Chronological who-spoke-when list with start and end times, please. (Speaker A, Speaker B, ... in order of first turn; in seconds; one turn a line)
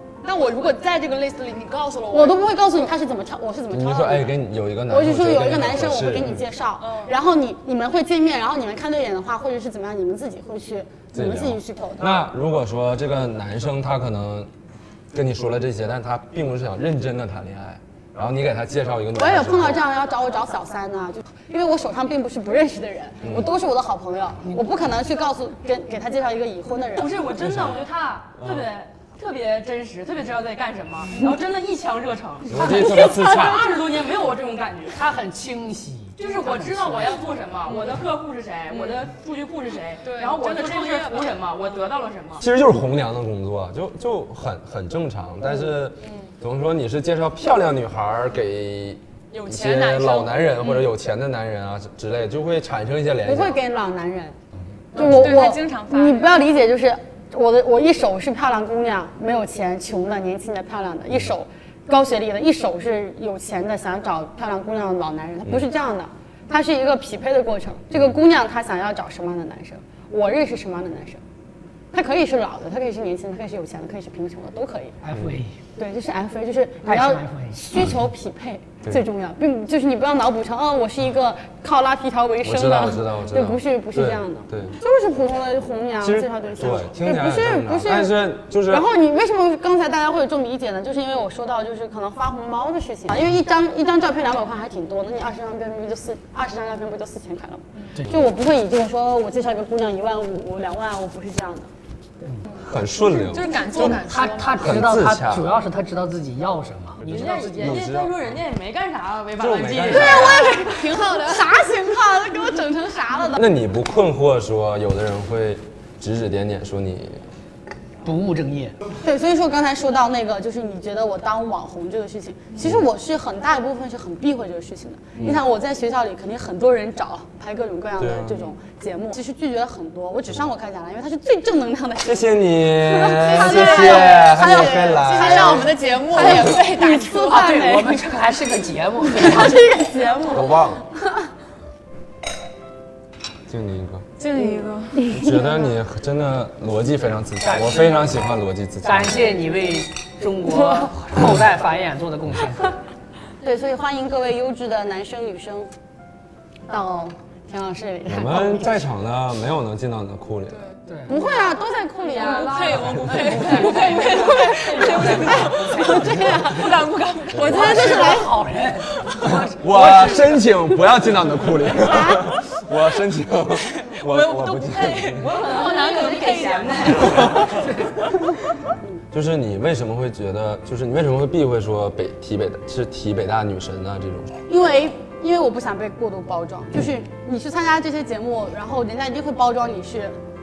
Speaker A: 0.2-2.4
Speaker B: 2.1-4.3
Speaker C: 3.7-6.5
Speaker B: 4.9-12.2
Speaker A: 6.8-7.1
Speaker C: 11.1-14.5
Speaker C: 15.1-19.9
Speaker B: 19.1-27.3
Speaker C: 23.2-23.5
Speaker D: 26.9-35.0
Speaker C: 27.4-27.8
Speaker C: 28.4-28.7
Speaker C: 32.5-33.6
Speaker E: 34.9-37.3
Speaker D: 36.2-42.5
Speaker A: 38.7-39.1
Speaker A: 40.0-41.4
Speaker C: 42.4-53.6
Speaker A: 49.3-50.9
Speaker B: 53.3-54.4
Speaker B: 54.9-71.2
Speaker A: 55.0-56.5
Speaker B: 71.9-75.0
Speaker E: 75.0-75.6
Speaker B: 75.8-101.7
Speaker E: 76.8-77.8
Speaker C: 82.4-84.8
Speaker C: 86.0-88.9
Speaker C: 102.6-104.0
Speaker A: 103.0-104.9
Speaker E: 103.8-107.0
Speaker C: 104.6-105.5
Speaker C: 107.0-108.3
Speaker D: 107.0-110.4
Speaker A: 107.1-107.8
Speaker C: 109.4-110.7
Speaker B: 109.9-113.5
Speaker A: 109.9-112.0
Speaker C: 113.4-117.2
Speaker E: 118.0-118.7
Speaker B: 119.0-137.6
Speaker C: 122.6-122.9
Speaker C: 125.2-125.4
Speaker C: 128.0-128.5
Speaker C: 132.0-136.5
Speaker A: 133.2-138.1
Speaker E: 137.0-139.6
Speaker A: 139.1-140.5
Speaker B: 139.2-140.5
Speaker C: 140.3-140.8
Speaker C: 143.5-144.1
Speaker A: 144.2-145.0
Speaker B: 144.3-145.7
Speaker C: 145.1-149.3
Speaker E: 147.4-148.1
Speaker E: 148.8-152.8
Speaker B: 153.4-155.7
Speaker B: 156.7-158.8
Speaker C: 158.1-160.6
Speaker A: 160.5-161.4
Speaker E: 160.9-161.2
Speaker B: 161.1-168.3
Speaker A: 162.0-168.3
Speaker C: 162.7-163.2
Speaker E: 163.3-163.7
Speaker D: 163.3-165.5
Speaker E: 164.6-166.4
Speaker C: 167.3-167.6
Speaker E: 167.4-169.3
Speaker A: 168.9-170.5
Speaker C: 169.2-175.4
Speaker B: 171.8-172.2
Speaker A: 173.6-177.6
Speaker D: 175.2-177.4
Speaker E: 177.5-178.1
Speaker C: 179.1-184.3
Speaker B: 184.5-190.2